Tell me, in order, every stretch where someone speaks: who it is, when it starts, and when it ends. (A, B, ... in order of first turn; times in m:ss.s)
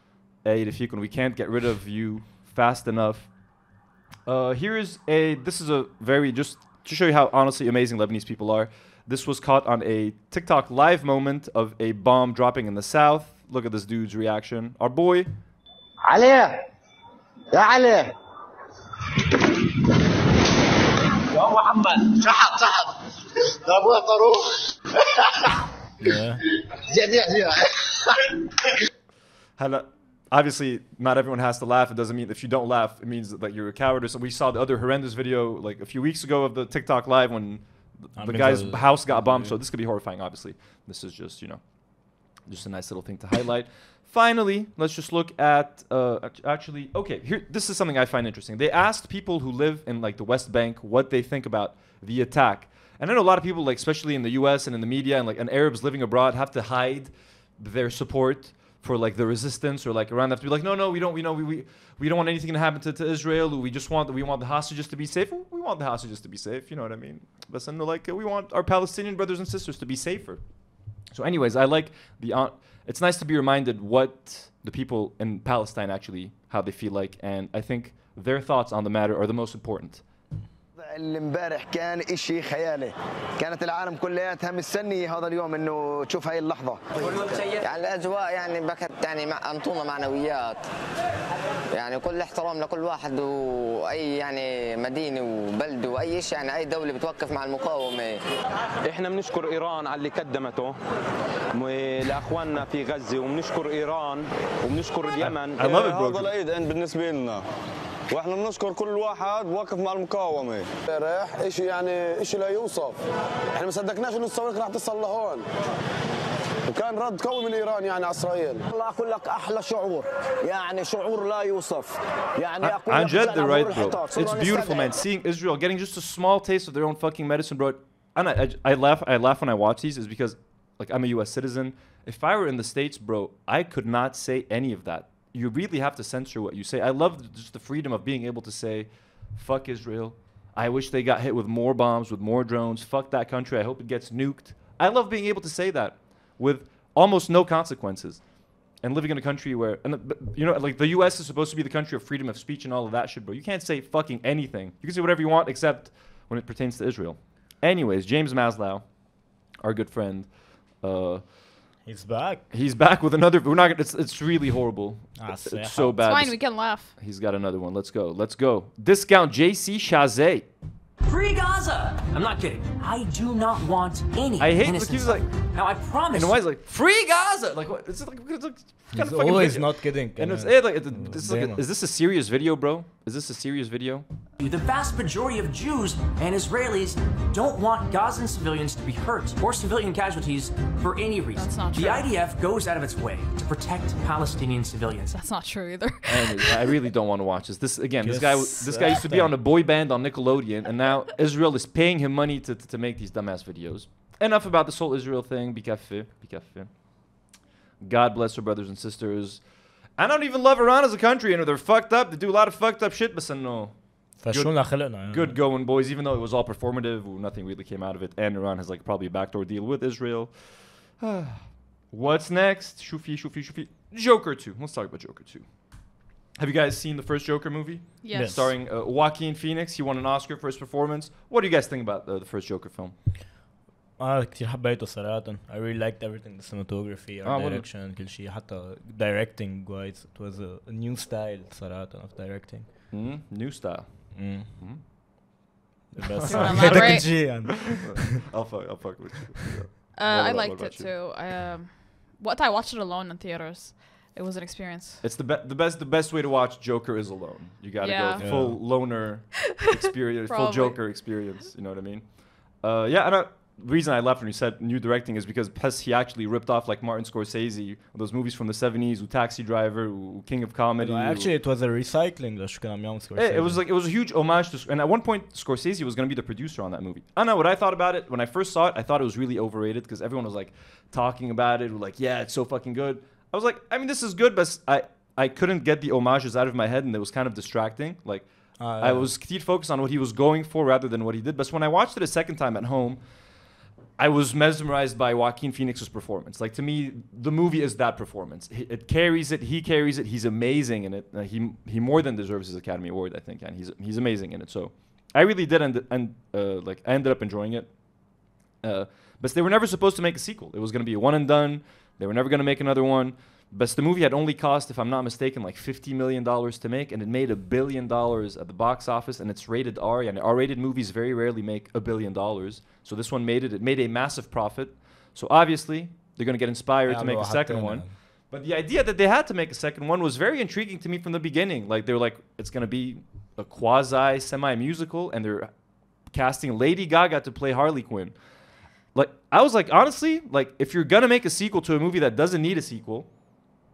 0:00.4-0:03.3 A
0:04.2-0:15.3 A
0:16.0-0:16.5 B
0:17.5-0:18.0 B
0:21.4-0:22.5 B
0:23.7-0:24.3 B
0:26.0-0:26.4 C
0:27.0-0:27.4 B
0:29.6-0:41.6 A
0:38.2-0:39.6 C
0:42.4-1:10.4 A
1:11.1-1:20.0 A
1:20.8-1:27.5 B
1:27.4-1:30.6 D
1:31.7-1:38.2 D
1:38.8-1:40.8 E
1:41.5-1:46.4 E
1:45.2-1:46.3 A
1:47.0-1:47.3 E
1:48.1-1:53.0 F
1:53.6-1:55.4 F
1:56.7-1:58.6 F
1:58.7-2:01.8 B
2:02.4-2:04.8 B
2:02.6-2:28.2 A
2:28.8-2:38.8 A
2:39.6-2:41.3 A
2:41.8-2:42.5 C
2:42.5-2:46.4 A
2:45.2-2:46.0 C
2:46.0-2:46.9 G
2:47.0-2:50.5 A
2:51.0-2:56.4 H
2:54.4-2:55.3 A
2:56.1-3:04.0 A
2:58.9-3:01.6 C
3:04.4-3:15.2 H
3:11.3-3:12.1 G
3:15.1-3:16.5 G
3:16.1-3:26.8 A
3:18.0-3:19.3 C
3:27.8-3:29.4 A
3:30.0-3:33.8 A
3:34.2-3:35.4 C
3:34.3-3:40.4 A
3:40.9-3:45.5 A
3:46.4-3:52.9 A
3:48.0-3:48.4 G
3:48.1-3:48.5 C
3:54.0-4:02.7 C
3:57.2-3:57.7 A
4:02.9-4:04.8 A
4:04.1-4:04.5 C
4:05.9-4:08.0 C
4:06.2-4:07.4 G
4:06.4-4:10.9 A
4:09.9-4:15.0 G
4:15.0-4:22.1 A
4:17.8-4:18.3 G
4:18.2-4:18.6 C
4:20.3-4:20.8 G
4:22.6-4:31.3 A
4:30.8-4:33.6 C
4:33.2-4:48.3 A
4:48.6-4:49.1 C
4:48.8-4:53.0 A
4:54.0-5:07.7 A
5:08.6-5:35.5 A
5:26.9-5:27.9 C
5:36.1-5:38.2 A
5:38.9-5:43.1 A